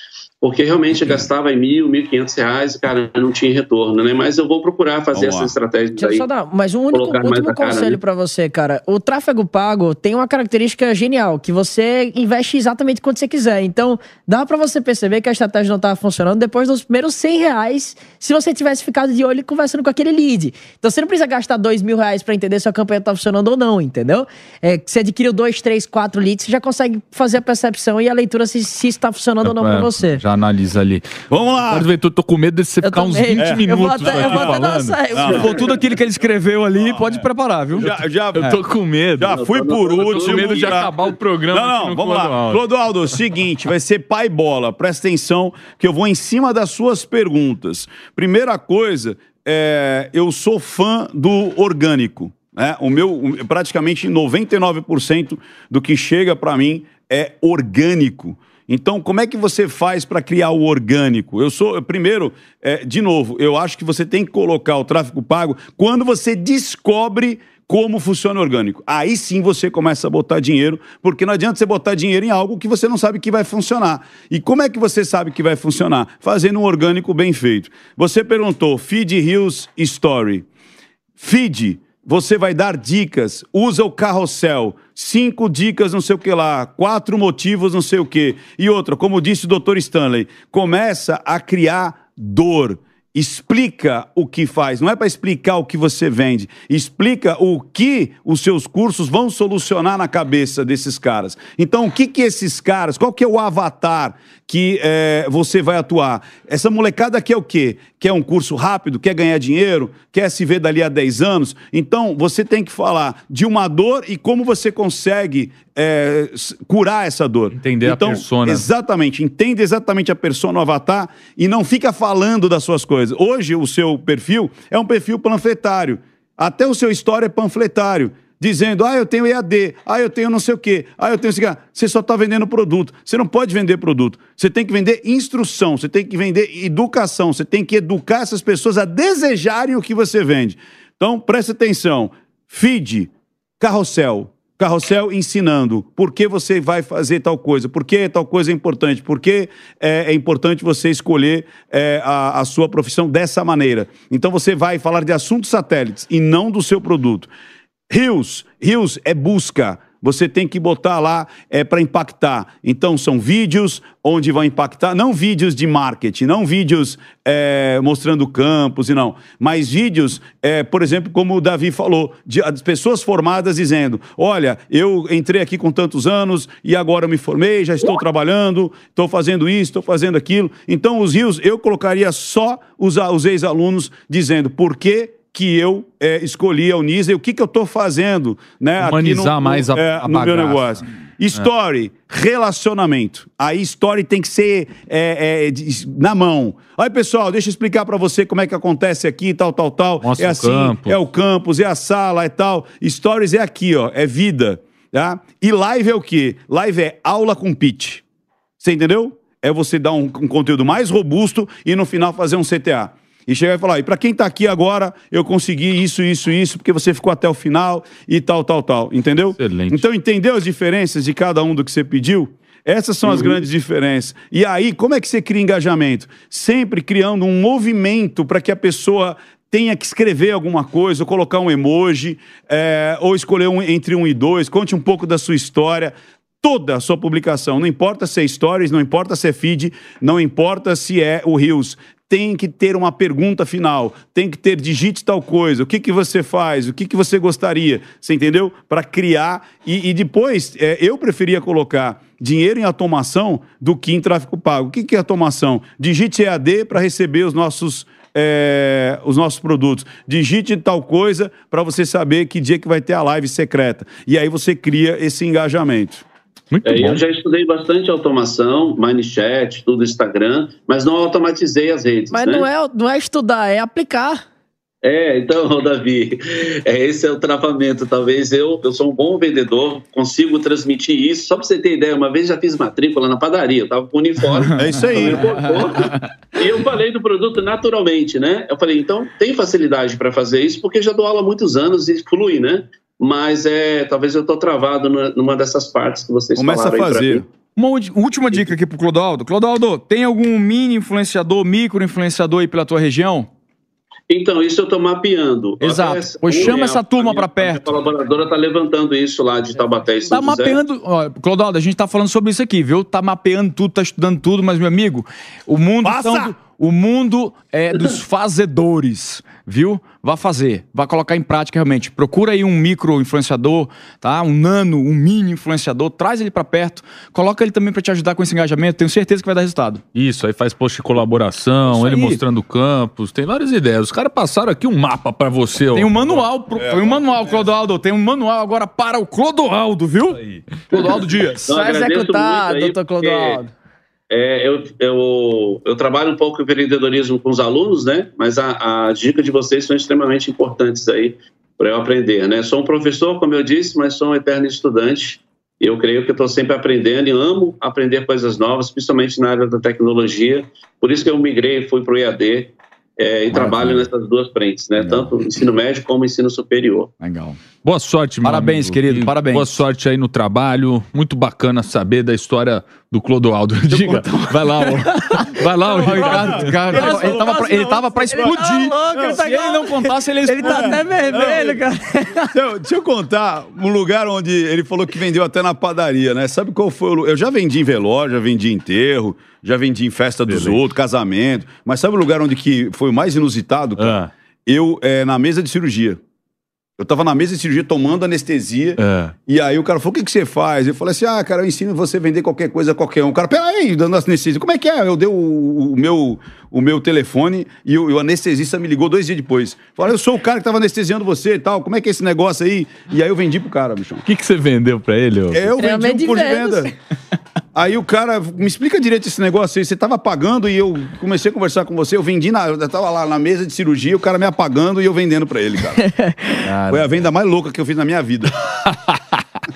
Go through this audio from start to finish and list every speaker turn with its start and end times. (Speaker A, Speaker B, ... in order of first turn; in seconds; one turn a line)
Speaker A: 0.4-6.2
Speaker B: 5.1-5.5
Speaker C: 6.0-30.2
Speaker A: 6.9-8.0
Speaker D: 29.4-31.1
Speaker B: 31.3-31.9
Speaker D: 31.7-35.0
Speaker C: 32.8-35.6
Speaker B: 33.4-34.6
Speaker B: 35.1-35.5
Speaker E: 35.2-37.9
Speaker B: 37.8-38.5
Speaker D: 37.8-42.6
Speaker B: 39.2-41.0
Speaker A: 39.3-40.9
Speaker B: 41.5-80.5
Speaker B: 81.2-157.3
Speaker D: 117.5-118.6
Speaker B: 157.9-208.0
Speaker D: 188.8-190.8
Speaker D: 200.0-201.0
Speaker B: 208.6-266.0
Speaker D: 219.4-219.8
Speaker D: 266.5-267.0
Speaker A: 266.6-272.5
Speaker C: 272.1-274.2
Speaker A: 274.8-297.2
Speaker B: 284.5-285.3
Speaker B: 296.4-297.2
Speaker E: 297.6-303.3
Speaker A: 304.1-310.6
Speaker E: 305.6-307.8
Speaker E: 310.1-329.8
Speaker B: 315.8-316.3
Speaker D: 329.9-336.2
Speaker E: 331.7-332.2
Speaker E: 335.7-340.2
Speaker B: 336.5-337.4
Speaker D: 340.2-340.4
Speaker E: 340.7-341.4
Speaker A: 341.4-343.4
Speaker C: 341.5-343.5
Speaker A: 344.1-366.9
Speaker D: 363.3-363.9
Speaker E: 367.0-367.4
Speaker D: 367.6-374.3
Speaker E: 368.2-369.6
Speaker E: 373.7-374.9
Speaker C: 374.9-382.3
Speaker D: 375.4-376.6
Speaker E: 375.8-381.3
Speaker B: 375.9-379.2
Speaker B: 380.4-381.6
Speaker B: 382.2-396.0
Speaker D: 390.3-390.6
Speaker D: 393.8-394.1
Speaker B: 396.8-414.0
Speaker D: 398.8-399.1
Speaker D: 414.1-415.5
Speaker B: 415.3-416.7
Speaker C: 415.6-416.7
Speaker B: 417.5-425.8
Speaker C: 425.8-426.4
Speaker D: 426.4-426.9
Speaker B: 426.7-428.3
Speaker D: 428.6-429.2